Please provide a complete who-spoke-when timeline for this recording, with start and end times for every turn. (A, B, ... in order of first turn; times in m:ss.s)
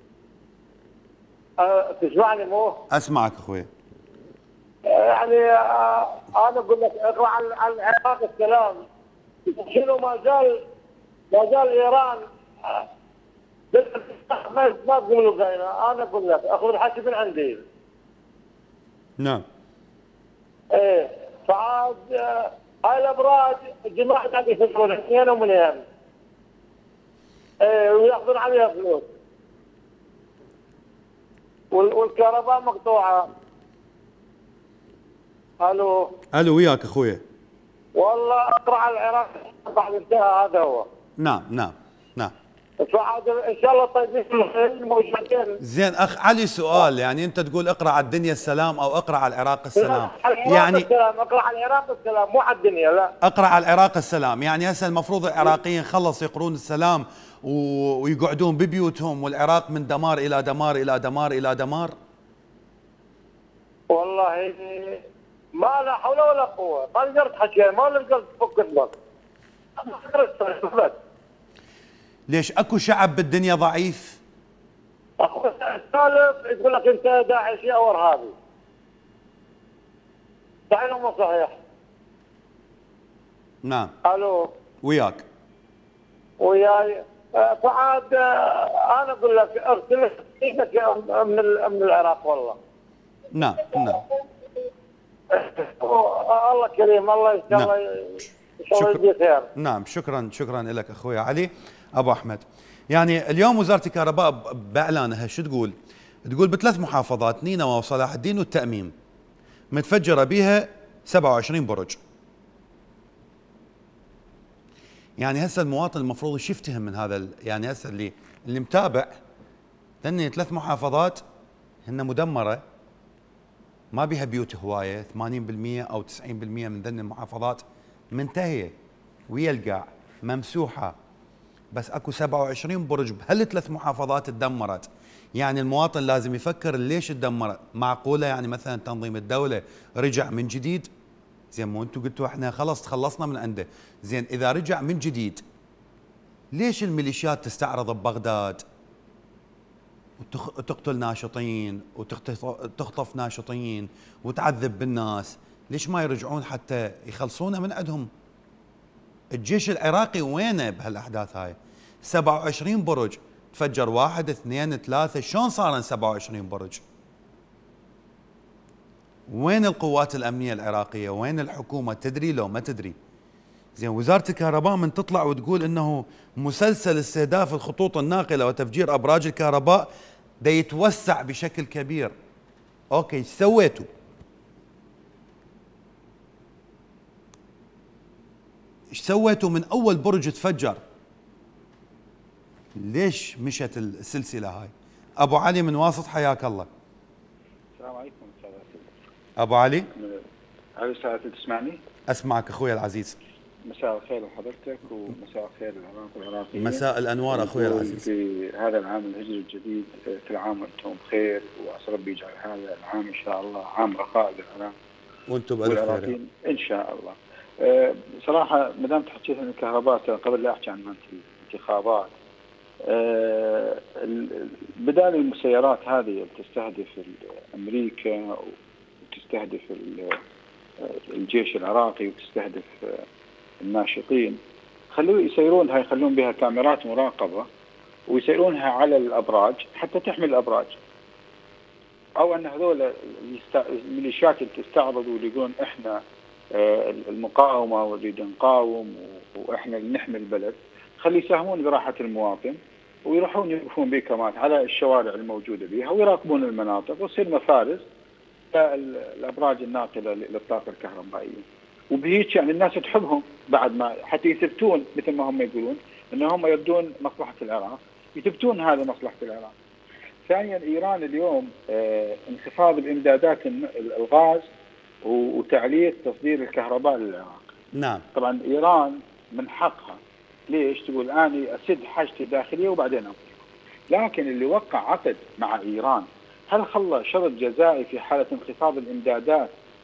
0:01.6-0:02.8 A
0:02.9-0:03.7 B
0:04.8-0:08.8 A
0:09.5-0:10.6 A
0:11.3-0:12.8 A
0:13.7-0:17.6 A
0:19.2-0:19.4 B
0:20.7-0:25.8 A
0:27.6-0:29.1 A
0:31.7-0:33.3 A
0:35.6-0:36.1 A
0:36.3-0:37.2 B
0:38.0-0:40.9 A
0:41.2-0:42.3 B
0:42.8-0:45.6 A
0:45.6-0:50.9 B
0:49.8-0:53.1 A
0:53.2-1:02.0 B
1:03.9-1:05.0 A
1:05.5-1:08.9 A
1:09.8-1:11.0 A
1:12.3-1:14.2 B
1:15.2-1:18.3 A
1:20.7-1:21.6 A
1:23.6-1:23.9 B
1:24.0-1:24.5 A
1:24.8-1:25.2 B
1:26.4-1:32.6 A
1:33.3-1:34.0 B
1:35.3-1:39.5 A
1:37.5-1:39.0 B
1:39.6-1:45.8 B
1:46.3-1:48.9 B
1:49.7-1:52.0 B
1:55.2-1:59.2 B
2:00.0-2:01.2 B
2:01.9-2:02.6 B
2:03.9-2:08.7 B
2:09.3-2:11.0 B
2:11.7-2:20.9 B
2:21.5-2:25.4 B
2:26.5-2:28.6 B
2:30.2-2:38.1 B
2:39.3-2:46.8 B
2:49.3-2:53.0 B
2:53.8-2:59.9 B
3:00.4-3:02.1 B
3:02.9-3:03.9 B
3:08.9-3:10.8 B
3:12.8-3:16.7 B
3:17.8-3:18.9 C
3:19.4-3:19.9 B
3:19.9-3:20.2 C
3:20.8-3:21.8 C
3:22.1-3:23.2 B
3:23.7-3:34.7 C
3:26.6-3:28.1 B
3:35.3-3:36.1 B
3:35.6-3:42.1 C
3:42.8-3:50.2 C
3:50.8-3:53.0 C
3:53.6-3:54.4 C
3:54.9-3:57.5 C
3:58.1-4:00.8 C
4:02.2-4:06.0 C
4:06.5-4:17.8 C
4:18.5-4:29.5 C
4:30.3-4:34.5 C
4:35.0-4:37.5 C
4:37.7-4:38.0 B
4:38.2-4:43.3 C
4:43.9-4:49.5 C